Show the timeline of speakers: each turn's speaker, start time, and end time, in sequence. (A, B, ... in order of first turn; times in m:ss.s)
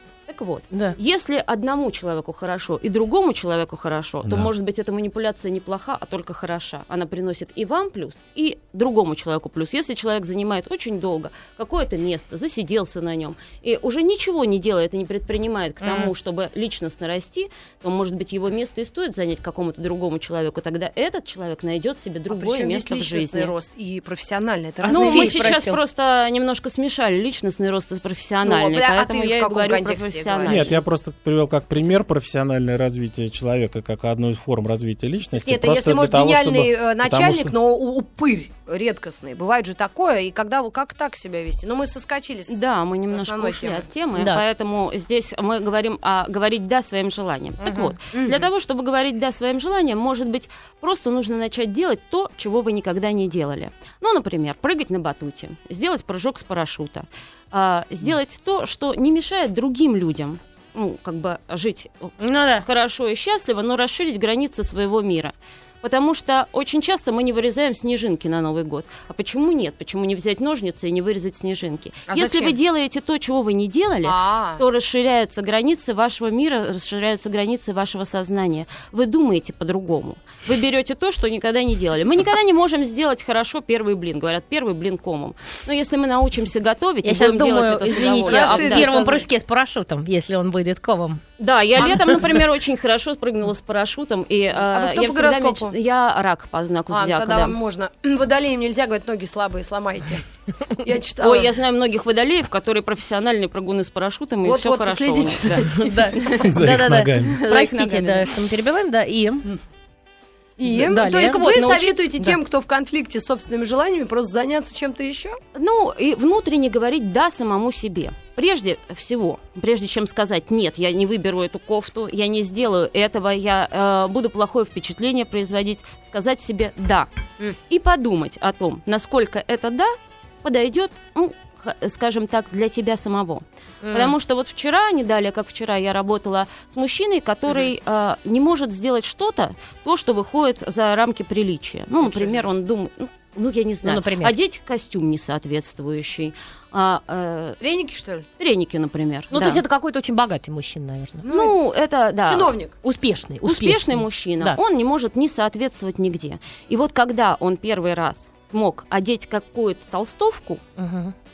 0:00.3-0:23.5 A
0:00.7-0:01.0 B
0:04.2-0:04.5 C
0:15.8-0:16.1 D
0:22.3-0:25.5 D
0:24.8-0:25.8 B
0:24.9-0:30.8 A
0:28.4-0:30.7 D
0:30.4-0:37.6 C
0:35.4-0:43.9 D
0:42.5-1:29.1 A
0:44.2-0:44.4 B
0:47.6-0:47.9 B
0:48.1-0:48.5 D
1:02.2-1:02.6 B
1:12.1-1:12.6 D
1:14.0-1:14.6 D
1:27.0-1:31.2 B
1:28.0-1:29.2 D
1:31.4-1:37.6 A
1:31.8-1:32.2 B
1:34.7-1:35.7 D
1:36.9-1:40.2 D
1:40.8-1:41.5 D
1:41.2-1:46.5 A
1:44.4-1:46.1 D
1:45.7-1:49.5 B
1:46.4-1:47.4 C
1:47.1-1:48.3 A
1:50.6-1:55.4 D
1:50.7-1:51.4 B
1:51.1-1:52.4 A
1:55.6-2:07.1 A
2:07.7-2:09.9 A
2:10.4-2:27.6 A
2:13.8-2:14.1 B
2:22.0-2:22.5 D
2:23.8-2:24.3 B
2:27.6-2:28.3 D
2:28.4-2:29.6 A
2:29.3-2:31.2 B
2:31.2-2:31.6 D
2:31.3-2:32.5 A
2:32.3-2:32.7 D
2:32.8-2:34.6 B
2:33.4-2:40.6 A
2:40.8-2:41.1 B